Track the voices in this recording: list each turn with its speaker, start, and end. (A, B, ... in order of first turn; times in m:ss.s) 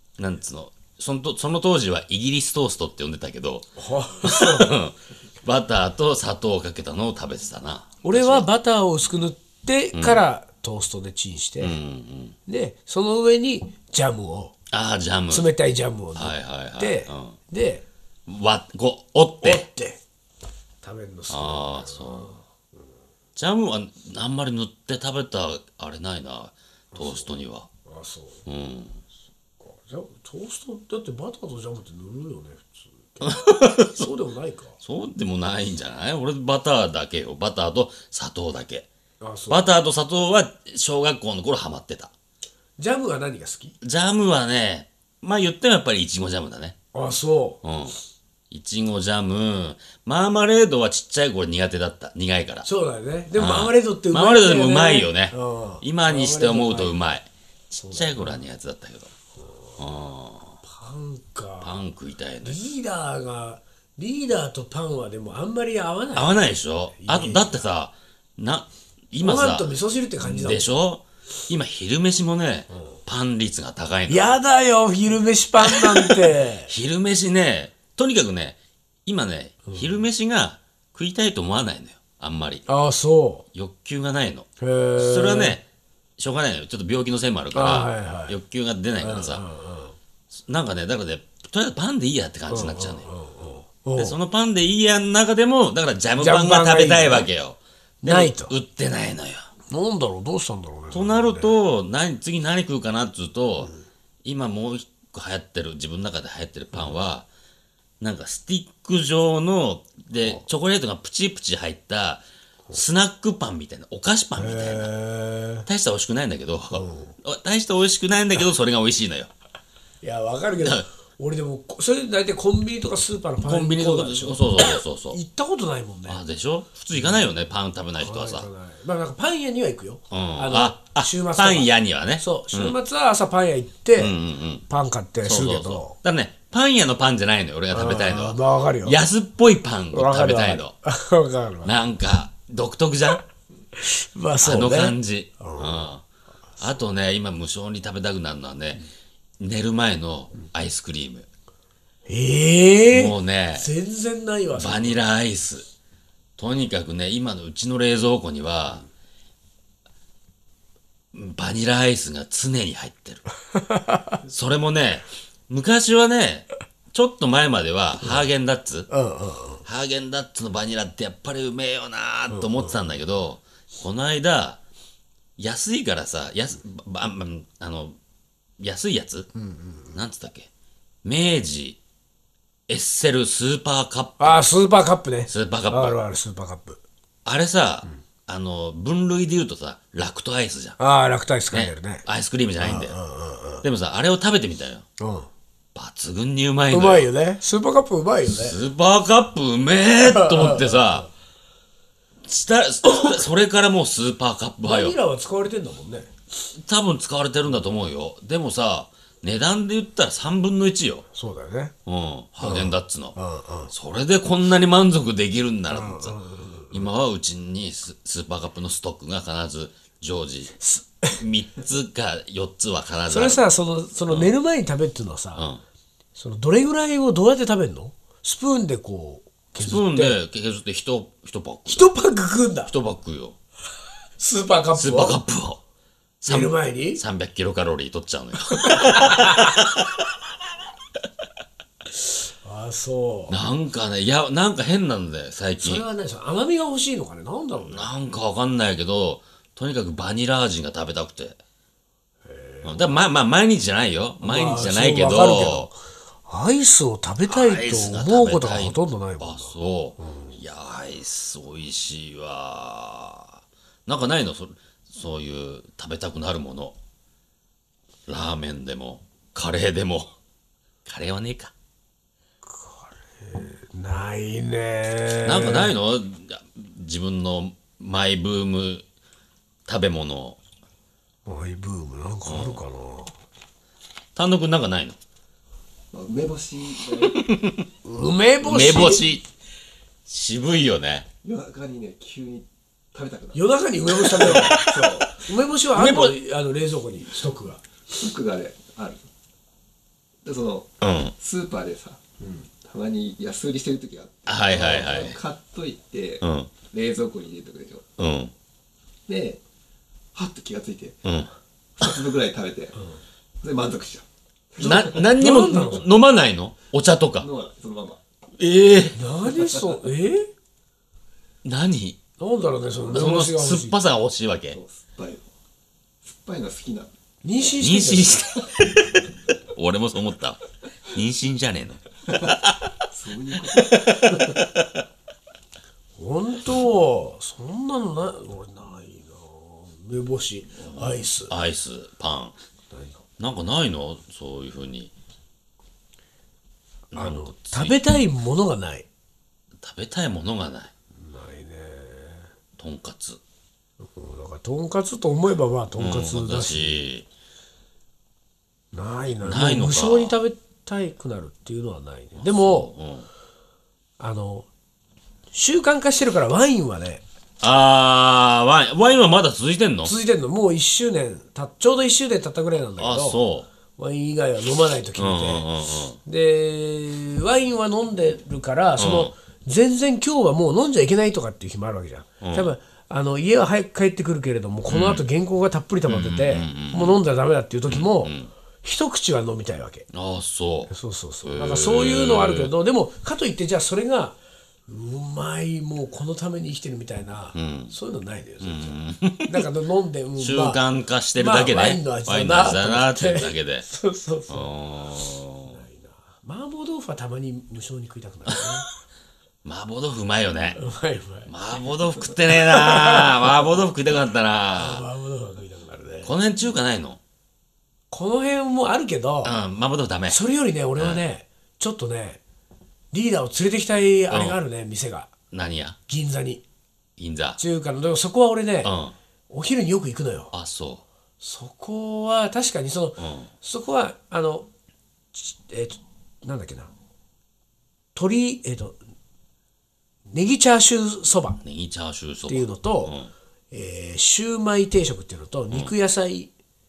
0:00.2-0:03.7 A
0:03.8-0:04.8 B
0:04.2-0:08.4 A
0:08.0-0:11.8 B
0:09.9-0:10.2 A
0:11.6-0:12.4 A
0:12.5-0:14.5 B
0:14.7-0:15.5 A
0:15.3-0:17.8 B
0:16.2-0:17.4 A
0:18.3-0:19.7 A
0:19.4-0:20.0 B
0:20.8-0:22.4 B
0:21.3-0:22.4 A
0:23.4-0:27.7 A
0:26.9-0:27.3 B
0:27.8-0:28.4 B
0:28.4-0:29.0 A
0:29.6-0:34.8 B
0:33.2-0:34.1 A
0:34.8-0:38.9 A
0:39.2-0:39.7 B
0:39.5-0:42.1 A
0:42.8-0:43.7 B
0:43.8-0:46.8 A
0:46.9-0:47.6 B
0:47.6-0:47.9 A
0:48.5-0:52.6 A
0:52.6-0:56.9 B
0:53.4-0:57.3 A
0:57.7-0:58.4 B
0:57.9-0:59.1 A
0:59.8-1:00.6 A
1:00.6-1:01.7 B
1:01.6-1:02.6 A
1:02.4-1:06.4 B
1:06.1-1:09.7 A
1:07.0-1:07.6 B
1:09.2-1:10.7 B
1:10.2-1:14.4 A
1:14.1-1:16.7 B
1:15.6-1:22.6 A
1:22.7-1:23.4 B
1:23.5-1:25.6 A
1:24.6-1:25.6 B
1:26.2-1:29.4 A
1:27.5-1:28.3 B
1:29.0-1:30.0 B
1:30.3-1:33.0 A
1:32.5-1:34.2 B
1:34.0-1:39.5 A
1:36.2-1:37.3 B
1:38.0-1:38.5 B
1:39.7-1:41.5 B
1:40.9-1:43.7 A
1:44.2-1:47.3 A
1:48.0-1:54.9 A
1:54.3-1:55.7 B
1:55.6-1:59.3 A
1:56.7-1:57.1 B
2:00.0-2:06.2 B
2:00.6-2:00.8 A
2:03.4-2:05.2 A
2:06.1-2:08.5 A
2:08.0-2:14.2 B
2:10.1-2:12.8 A
2:14.0-2:14.6 A
2:14.7-2:16.0 B
2:15.2-2:20.7 A
2:17.7-2:19.0 B
2:19.9-2:21.7 B
2:21.6-2:23.2 A
2:23.8-2:25.9 B
2:24.4-2:26.0 A
2:26.6-2:28.8 A
2:29.4-2:31.3 A
2:32.1-2:35.0 B
2:32.9-2:33.7 A
2:34.6-2:35.6 A
2:36.4-2:38.8 A
2:41.1-2:43.2 A
2:43.7-2:44.1 B
2:44.2-2:48.9 A
2:48.9-2:49.6 B
2:49.6-2:54.6 A
2:52.3-2:52.7 B
2:55.4-2:58.0 A
2:58.6-2:59.3 A
2:59.3-2:59.9 B
2:59.9-3:00.5 A
3:01.0-3:01.8 A
3:02.7-3:04.4 A
3:04.2-3:06.8 B
3:05.3-3:06.0 A
3:07.2-3:10.8 A
3:10.8-3:12.0 B
3:11.5-3:13.0 A
3:12.6-3:13.6 B
3:13.6-3:14.8 A
3:15.0-3:15.3 B
3:15.7-3:17.1 A
3:16.7-3:18.6 B
3:18.3-3:21.1 A
3:20.0-3:21.0 B
3:22.2-3:24.9 A
3:22.9-3:23.2 B
3:24.6-3:26.1 B
3:26.5-3:31.1 A
3:31.1-3:31.7 B
3:31.8-3:33.1 A
3:32.4-3:33.7 B
3:33.7-3:36.2 A
3:35.7-3:36.8 B
3:36.7-3:40.6 A
3:40.6-3:41.2 B
3:41.1-3:43.4 A
3:43.1-3:45.5 B
3:45.4-3:45.6 A
3:46.1-3:50.2 B
3:49.6-3:51.9 A
3:51.7-3:52.7 B
3:52.7-3:53.4 A
3:54.2-3:55.2 B
3:54.8-3:55.6 A
3:56.2-3:59.9 A
3:56.3-3:57.0 B
3:58.5-3:59.6 B
4:02.4-4:03.4 B
4:03.3-4:05.8 A
4:05.6-4:07.9 B
4:07.6-4:11.4 A
4:12.2-4:12.9 B
4:12.6-4:15.7 A
4:14.2-4:20.4 B
4:17.3-4:26.7 A
4:28.1-4:30.1 A
4:30.8-4:31.5 A
4:32.4-4:35.7 B
4:35.2-4:38.8 A
4:39.6-4:40.4 A
4:41.2-4:43.1 B
4:42.2-4:42.6 A
4:44.1-4:45.0 A
4:45.9-4:47.2 C
4:47.1-4:47.6 A
4:47.8-4:49.1 B
4:48.4-4:49.2 A
4:50.0-4:51.0 A
4:51.2-4:53.4 C
4:53.3-4:57.6 B
4:54.1-4:54.6 A
4:54.1-4:55.1 C
4:55.7-4:56.2 A
4:57.9-4:59.1 C
5:00.2-5:02.0 C
5:00.8-5:01.1 A
5:02.6-5:07.8 C
5:04.3-5:05.2 A
5:06.2-5:06.5 A
5:08.0-5:08.3 A
5:09.1-5:09.4 C
5:10.1-5:11.0 C
5:11.0-5:11.9 A
5:11.8-5:12.8 C
5:13.4-5:15.1 C
5:14.6-5:17.3 A
5:14.6-5:15.9 B
5:17.2-5:18.0 C
5:18.4-5:19.0 A
5:18.9-5:20.3 B
5:19.4-5:19.7 C
5:21.4-5:22.0 A
5:22.2-5:23.8 B
5:22.9-5:24.6 A
5:24.5-5:25.3 C
5:26.0-5:26.9 C
5:27.2-5:28.2 B
5:27.6-5:32.8 A
5:32.9-5:34.4 C
5:33.5-5:34.8 A
5:36.0-5:41.3 B
5:40.6-5:42.3 A
5:42.7-5:43.0 B
5:43.2-5:44.9 A
5:46.9-5:47.8 A
5:46.9-5:48.8 B
5:49.6-5:50.7 A
5:51.0-5:52.3 B
5:52.6-5:53.2 A
5:53.8-5:56.8 B
5:55.8-5:57.1 A
5:58.7-6:02.7 B
5:59.2-6:00.1 A
6:02.2-6:03.1 A
6:04.0-6:04.5 B
6:05.3-6:07.0 B
6:07.4-6:09.9 A
6:09.8-6:13.2 B
6:12.8-6:13.5 A
6:13.8-6:15.4 B
6:15.0-6:16.0 A
6:16.0-6:29.9 B
6:18.8-6:19.1 A
6:22.2-6:22.5 A
6:24.7-6:25.0 A
6:25.9-6:27.0 A
6:27.7-6:28.3 A
6:29.9-6:30.7 A
6:30.7-6:34.2 B
6:31.2-6:32.5 A
6:34.7-6:40.6 B
6:37.3-6:37.7 A
6:38.4-6:39.4 A
6:40.2-6:43.6 A
6:41.2-6:44.5 B
6:44.3-6:45.6 A
6:45.4-6:48.7 B
6:48.3-6:48.7 A
6:49.4-6:50.6 A
6:50.5-6:51.3 B
6:51.2-6:54.8 A
6:52.2-6:53.4 B
6:54.5-6:56.1 B
6:56.0-6:57.0 A
6:57.9-6:59.3 B
6:59.2-7:00.2 A
7:00.1-7:02.2 B
7:00.8-7:01.0 A
7:02.9-7:05.1 B
7:04.1-7:04.4 A
7:05.3-7:05.8 A
7:05.9-7:06.4 B
7:07.0-7:07.4 A
7:07.4-7:08.7 B
7:08.6-7:08.9 A
7:09.3-7:10.3 B
7:10.3-7:10.8 A
7:11.2-7:14.5 B
7:13.0-7:13.3 A
7:15.1-7:16.7 B
7:17.9-7:18.8 B
7:20.1-7:21.4 B
7:21.4-7:23.1 A
7:22.3-7:23.0 B
7:23.5-7:26.3 B